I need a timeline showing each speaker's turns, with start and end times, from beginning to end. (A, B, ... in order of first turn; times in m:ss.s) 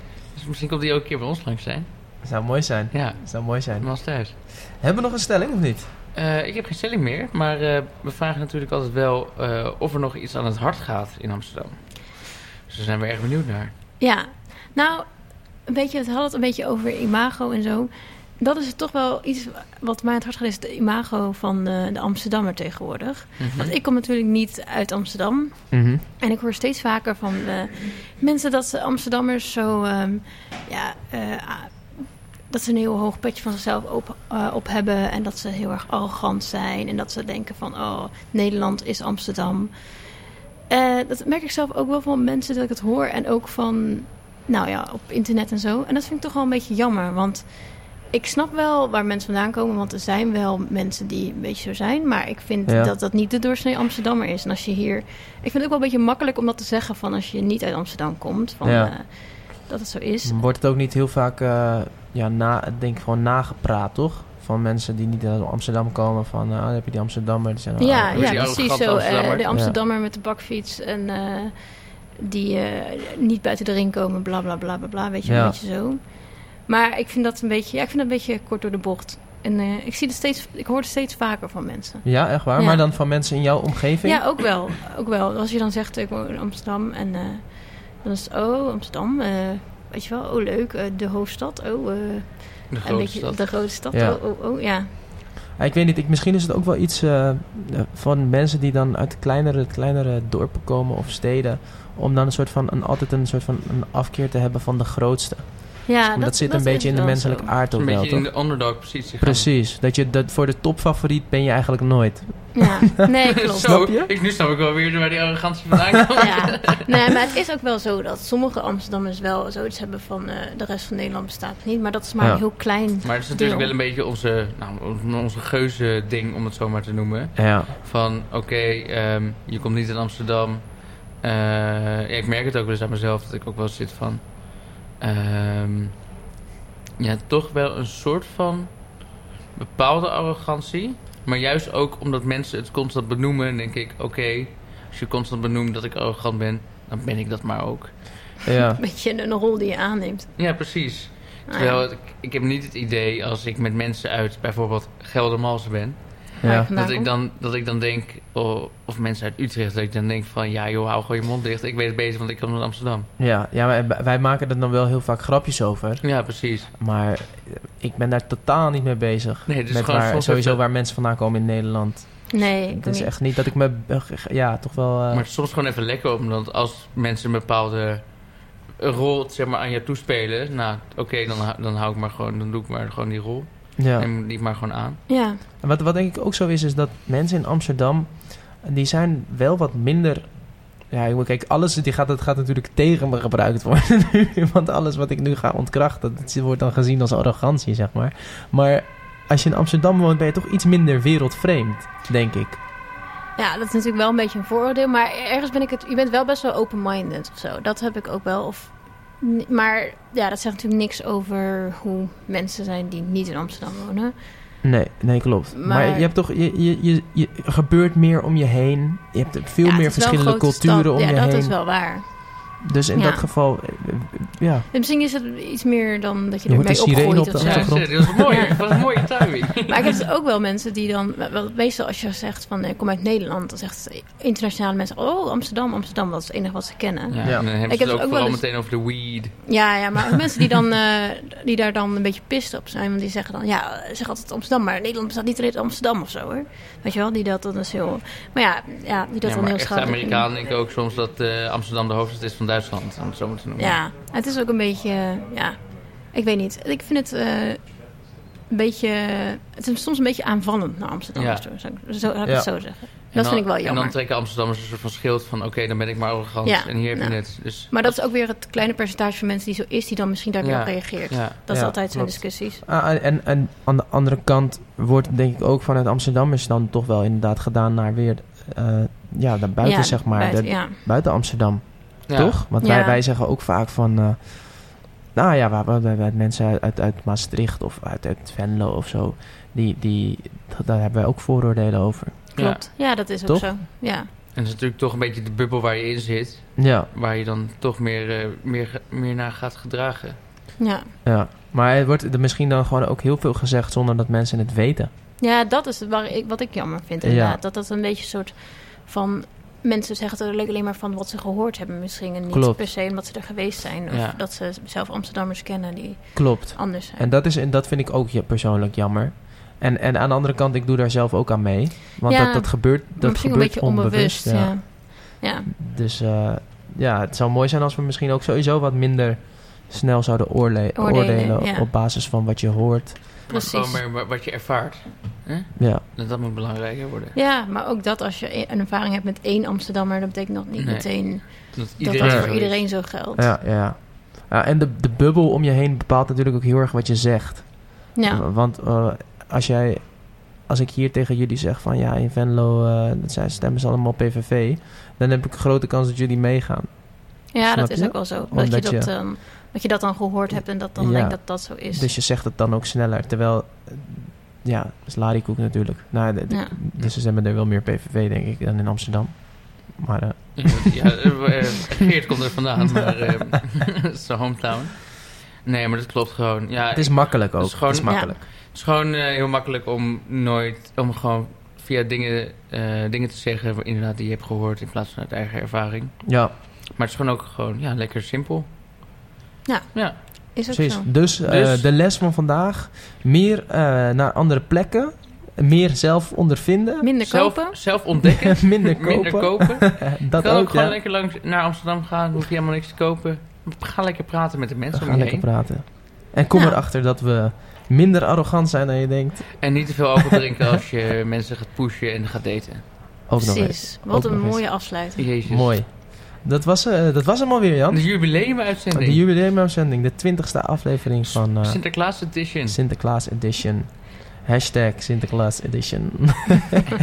0:00.3-0:02.1 A
0:02.2-0:05.9 B
0:02.9-0:04.4 A
0:06.1-0:13.7 A
0:14.0-0:40.2 C
0:23.4-0:23.7 A
0:25.7-0:26.0 B
0:40.7-1:00.4 C
0:52.7-0:52.9 B
0:58.6-0:59.0 B
1:00.2-1:08.6 B
1:07.8-1:22.9 C
1:08.1-1:09.5 A
1:09.5-1:09.8 B
1:15.2-1:15.6 B
1:22.0-1:24.4 B
1:24.0-1:34.9 C
1:32.7-1:33.6 A
1:33.9-1:34.2 B
1:35.6-1:52.8 B
1:45.9-1:47.5 C
1:47.7-1:49.5 A
1:52.6-1:53.9 C
1:53.4-1:54.1 B
1:53.4-1:57.1 A
1:56.2-2:03.7 C
2:03.0-2:16.1 A
2:07.4-2:07.8 B
2:17.0-2:28.2 A
2:28.4-2:28.8 B
2:28.7-2:30.4 C
2:30.4-2:43.1 A
2:31.5-2:31.9 C
2:36.4-2:36.7 B
2:36.4-2:37.1 C
2:43.2-2:55.3 B
2:46.0-2:46.7 A
2:49.5-2:50.6 A
2:52.3-2:53.3 C
2:55.1-3:05.0 A
3:03.8-3:04.1 B
3:05.1-3:05.4 C
3:05.6-3:22.6 B
3:23.4-3:34.6 C
3:34.6-3:42.0 B
3:35.5-3:36.1 C
3:39.6-3:43.3 C
3:42.6-3:44.7 B
3:44.7-3:48.8 C
3:46.5-3:48.7 B
3:47.4-3:50.0 A
3:49.7-3:58.6 C
3:57.1-3:59.5 A
3:59.4-4:10.3 C
4:09.2-4:13.8 A
4:13.6-4:17.8 C
4:18.5-4:24.0 C
4:21.2-4:21.5 A
4:22.2-4:22.6 B
4:23.1-4:28.0 A
4:26.4-4:32.6 C
4:30.4-4:31.4 A
4:31.5-4:52.4 B
4:39.6-4:40.8 C
4:42.1-4:42.4 A
4:42.6-4:43.0 C
4:52.4-4:52.6 A
4:52.4-4:54.1 C
4:52.9-4:53.5 B
4:54.3-5:00.2 A
4:56.6-4:56.9 B
5:00.6-5:00.9 C
5:01.0-5:04.9 B
5:05.2-5:17.1 C
5:07.0-5:07.4 B
5:12.3-5:12.6 B
5:13.9-5:14.2 A
5:16.2-5:24.9 B
5:22.1-5:25.5 C
5:25.5-5:33.2 B
5:30.8-5:31.7 C
5:33.3-5:37.2 A
5:33.3-5:33.8 C
5:35.6-5:35.8 B
5:37.1-5:43.3 C
5:40.6-5:42.6 A
5:42.0-5:58.9 B
5:48.0-5:48.2 C
5:57.3-6:01.9 C
6:00.8-6:10.8 B
6:06.3-6:06.5 C
6:10.4-6:28.5 A
6:16.7-6:18.2 B
6:17.9-6:18.1 C
6:26.0-6:26.3 B
6:29.5-6:30.9 C
6:30.5-6:36.9 B
6:31.2-6:31.7 A
6:36.8-6:37.6 C
6:37.0-6:45.3 A
6:38.0-6:40.8 B
6:44.7-6:49.8 B
6:46.3-6:46.6 C
6:49.4-6:52.7 A
6:53.1-7:06.7 B
6:53.2-6:55.0 C
6:55.0-6:55.6 A
6:57.7-6:59.0 A
7:01.0-7:02.6 A